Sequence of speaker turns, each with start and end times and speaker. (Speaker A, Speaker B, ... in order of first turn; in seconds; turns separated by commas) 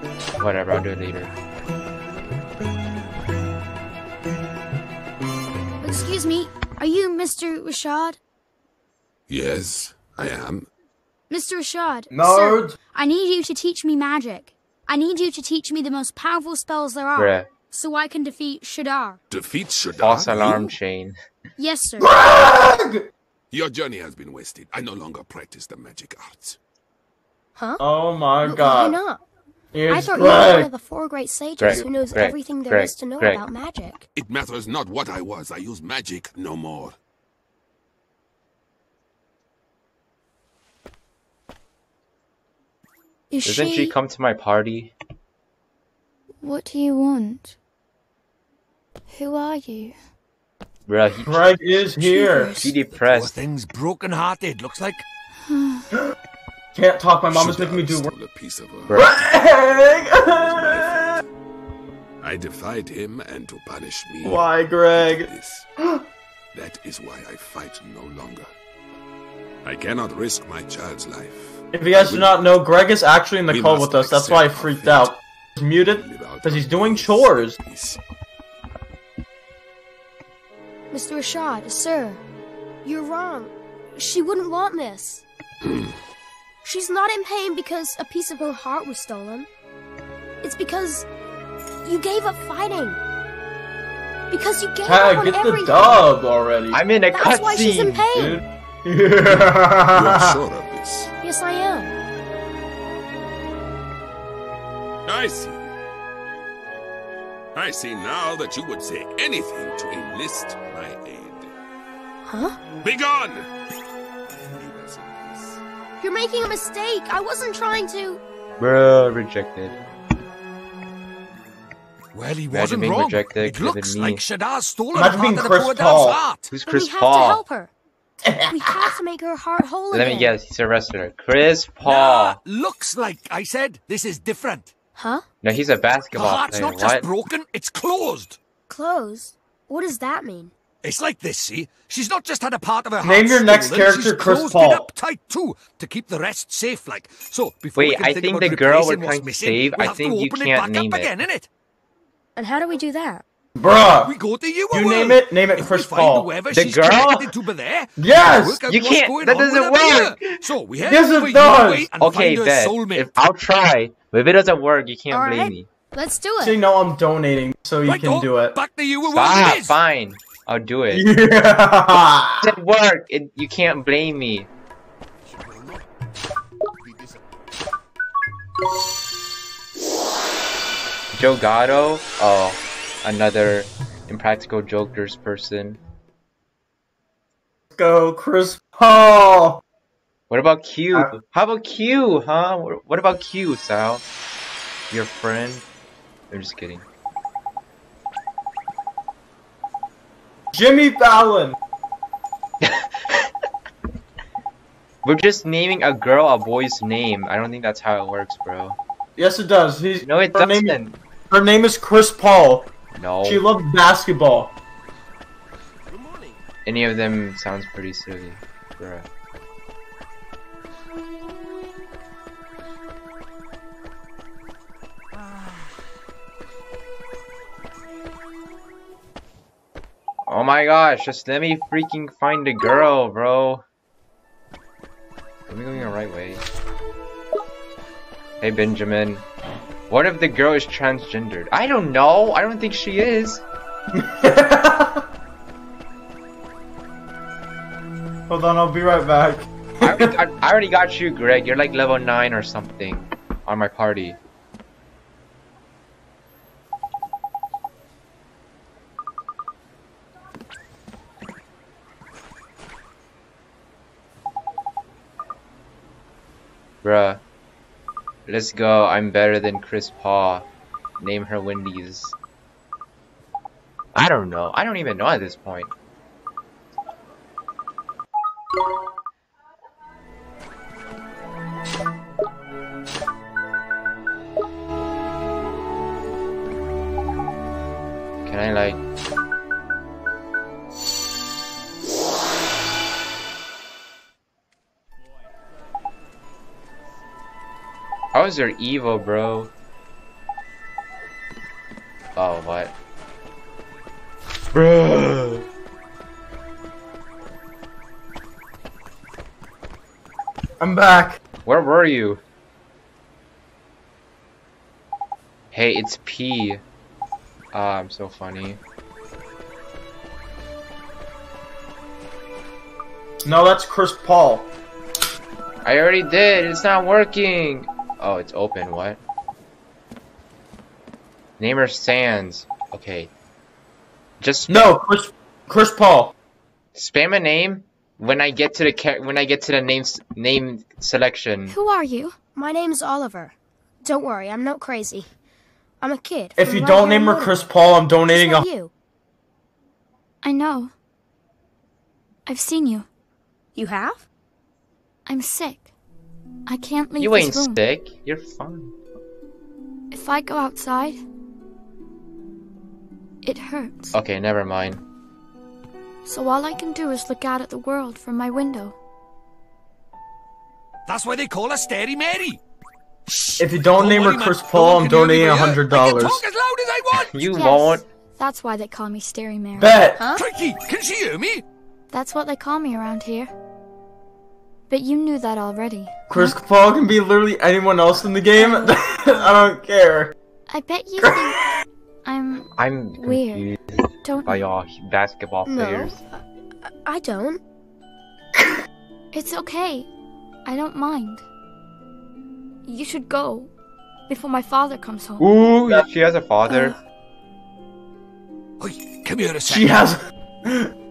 Speaker A: 0.4-1.3, Speaker B: 5.8-8.2, Speaker C: 9.3-10.7, Speaker B: 11.3-19.2, Speaker D: 12.1-12.7, Speaker A: 17.1-17.5, Speaker C: 19.3-20.7, Speaker A: 20.0-21.2, Speaker B: 21.6-22.1, Speaker D: 22.0-23.1, Speaker C: 23.5-26.6, Speaker B: 27.6-27.8, Speaker D: 27.8-29.0, Speaker B: 28.4-29.2, Speaker D: 29.7-30.7, Speaker B: 29.9-34.0, Speaker A: 31.6-33.4, Speaker C: 34.1-37.0, Speaker B: 43.3-43.9, Speaker A: 43.5-44.9, Speaker E: 46.4-47.5, Speaker E: 49.1-50.0, Speaker A: 50.9-51.5, Speaker D: 51.2-52.6, Speaker E: 52.0-52.7, Speaker A: 52.6-53.3, Speaker F: 52.9-55.0, Speaker E: 55.5-55.9, Speaker D: 56.7-58.1, Speaker C: 57.3-59.1, Speaker D: 58.9-61.2, Speaker C: 60.4-61.2, Speaker C: 62.2-64.5, Speaker D: 64.2-66.0, Speaker C: 65.0-65.6, Speaker C: 66.5-68.5, Speaker C: 69.6-72.3, Speaker D: 71.7-77.5, Speaker C: 73.5-75.2, Speaker C: 75.9-78.0, Speaker B: 80.9-82.2, Speaker B: 82.8-85.2, Speaker C: 85.6-86.0, Speaker B: 86.6-89.5, Speaker B: 90.4-91.1, Speaker B: 91.8-93.0, Speaker B: 94.3-96.1, Speaker D: 94.8-96.8, Speaker A: 96.7-98.0, Speaker B: 97.1-98.4, Speaker D: 98.1-100.4, Speaker C: 99.9-101.1, Speaker B: 101.2-101.9, Speaker C: 105.0-105.7, Speaker C: 107.5-111.5, Speaker B: 112.2-112.6, Speaker C: 112.8-113.5, Speaker C: 114.3-115.6, Speaker B: 116.0-118.2, Speaker A: 118.6-119.8, Speaker F: 122.1-126.5, Speaker A: 122.5-124.2, Speaker D: 124.9-126.2, Speaker A: 126.5-127.4, Speaker B: 126.7-127.7, Speaker D: 128.2-128.9, Speaker B: 128.3-130.3, Speaker A: 129.9-132.4, Speaker F: 131.8-134.7, Speaker B: 134.9-135.2, Speaker A: 135.4-137.1, Speaker F: 136.1-138.4, Speaker B: 138.7-140.5, Speaker F: 140.8-151.5, Speaker D: 143.0-144.9, Speaker A: 147.8-151.1, Speaker B: 152.3-153.2, Speaker D: 153.6-154.1, Speaker F: 154.0-163.1, Speaker D: 154.7-156.3, Speaker A: 156.5-157.3, Speaker D: 158.0-158.6, Speaker A: 158.7-160.3, Speaker D: 160.8-161.9, Speaker A: 162.0-165.7, Speaker B: 165.1-166.6, Speaker D: 166.4-168.6, Speaker F: 167.8-169.8, Speaker A: 169.0-171.1, Speaker D: 170.9-172.5, Speaker A: 172.4-174.5, Speaker C: 175.2-175.9, Speaker C: 176.8-177.2, Speaker A: 181.1-185.8, Speaker D: 187.7-189.6, Speaker A: 190.3-194.0, Speaker A: 194.9-195.6, Speaker A: 196.3-196.8, Speaker D: 200.5-201.6, Speaker A: 202.6-203.3, Speaker A: 205.0-208.8, Speaker D: 209.2-212.7, Speaker A: 210.0-211.0, Speaker A: 212.9-213.4, Speaker D: 213.2-214.5, Speaker A: 216.7-219.1, Speaker A: 230.3-233.6, Speaker A: 235.5-236.4, Speaker A: 238.4-239.2, Speaker A: 239.9-243.4, Speaker D: 243.9-245.0, Speaker D: 248.3-250.1, Speaker A: 249.8-254.2, Speaker A: 266.8-267.2, Speaker A: 268.3-270.4, Speaker A: 271.0-272.1, Speaker A: 273.9-275.7, Speaker A: 288.2-288.8, Speaker A: 298.1-299.5, Speaker A: 302.1-302.7, Speaker A: 304.5-305.4, Speaker D: 310.6-311.2, Speaker A: 311.4-312.2, Speaker A: 315.5-316.6, Speaker A: 317.5-318.6, Speaker D: 323.2-324.5, Speaker A: 325.6-329.0, Speaker A: 331.4-333.1, Speaker A: 334.2-334.8, Speaker D: 334.5-336.1, Speaker A: 336.8-341.6, Speaker E: 341.5-342.1, Speaker B: 342.3-345.1, Speaker B: 345.8-347.4, Speaker D: 346.4-348.5, Speaker B: 348.1-348.7, Speaker E: 350.2-350.7, Speaker E: 352.3-352.9, Speaker B: 353.6-354.1, Speaker E: 355.1-355.7, Speaker E: 356.5-357.6, Speaker A: 357.0-358.7, Speaker E: 359.9-361.0, Speaker E: 363.2-363.9, Speaker A: 363.9-364.8, Speaker E: 366.1-368.7, Speaker F: 370.9-372.4, Speaker F: 373.1-377.2, Speaker D: 373.4-376.2, Speaker A: 377.1-377.8, Speaker E: 377.2-379.9, Speaker D: 379.6-380.0, Speaker B: 380.0-380.2, Speaker F: 380.1-381.4, Speaker E: 381.9-383.3, Speaker E: 384.7-386.3, Speaker D: 386.1-390.1, Speaker E: 388.4-388.8, Speaker E: 390.5-391.4, Speaker D: 391.0-391.3, Speaker E: 392.0-393.5, Speaker A: 392.6-396.0, Speaker E: 394.0-394.4, Speaker B: 395.4-397.4, Speaker E: 399.1-399.9, Speaker E: 400.4-401.2, Speaker E: 402.6-403.5, Speaker E: 404.1-405.3, Speaker A: 405.2-406.7, Speaker F: 408.6-409.7, Speaker D: 409.4-410.7